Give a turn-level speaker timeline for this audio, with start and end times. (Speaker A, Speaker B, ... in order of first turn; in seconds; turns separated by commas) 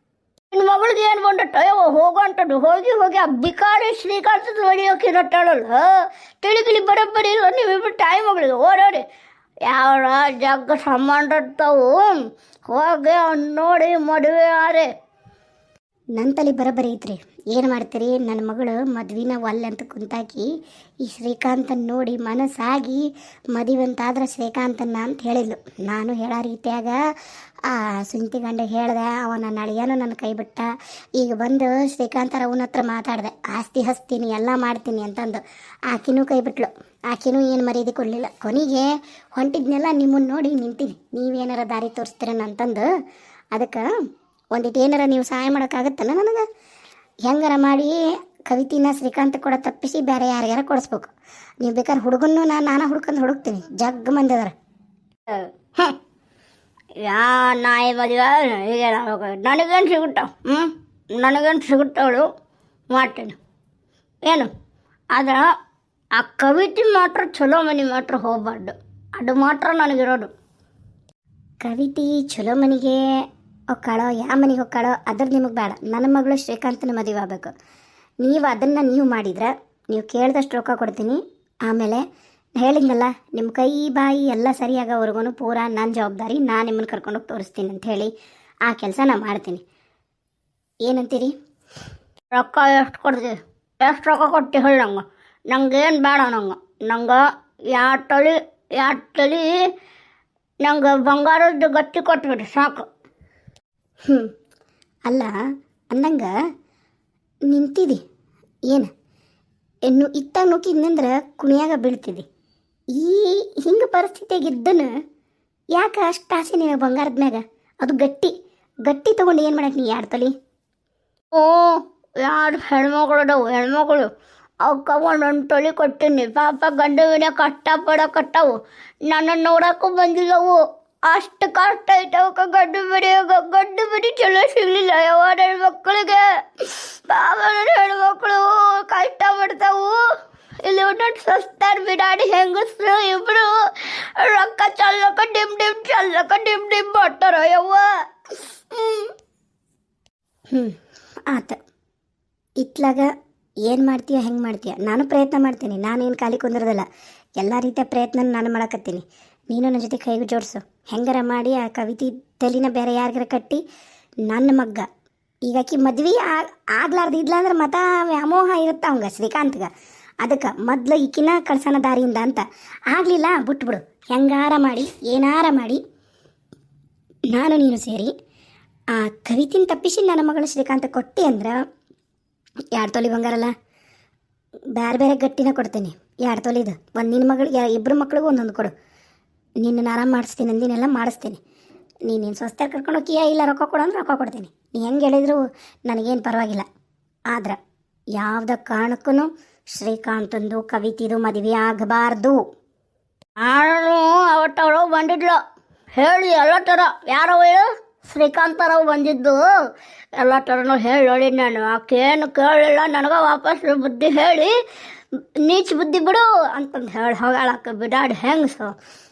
Speaker A: 0.5-9.0, Speaker A: 9.7-14.9, Speaker B: 16.1-20.5, Speaker B: 21.0-27.0, Speaker B: 27.6-42.9, Speaker B: 43.5-43.9, Speaker B: 44.5-46.4, Speaker B: 47.2-54.5, Speaker A: 55.3-56.0, Speaker A: 57.0-62.3, Speaker A: 62.9-63.4, Speaker A: 64.2-64.5, Speaker A: 65.1-65.5, Speaker A: 66.2-70.3, Speaker B: 71.6-73.0, Speaker B: 73.7-77.5, Speaker B: 78.2-82.0, Speaker B: 82.6-88.1, Speaker B: 88.7-89.6, Speaker B: 90.8-91.3, Speaker A: 92.3-99.7, Speaker A: 100.6-102.9, Speaker B: 105.1-105.3, Speaker B: 105.9-106.3, Speaker B: 107.5-108.0, Speaker B: 109.9-112.2, Speaker B: 112.9-114.9, Speaker B: 115.7-118.3, Speaker B: 118.8-120.3, Speaker A: 121.3-124.1, Speaker A: 124.6-140.0, Speaker A: 140.6-147.9, Speaker A: 148.7-149.1, Speaker B: 151.3-151.6, Speaker B: 152.6-153.1, Speaker B: 153.7-156.8, Speaker B: 157.4-163.6, Speaker B: 164.3-164.9, Speaker B: 165.5-169.7, Speaker B: 170.2-175.8, Speaker B: 177.3-178.1, Speaker B: 178.9-181.6, Speaker B: 182.7-183.5, Speaker B: 184.7-188.7, Speaker B: 189.6-191.4, Speaker B: 192.1-196.7, Speaker B: 197.3-197.6, Speaker B: 198.2-202.4, Speaker A: 203.4-205.4, Speaker A: 206.0-209.5, Speaker A: 210.2-214.5, Speaker A: 215.4-218.7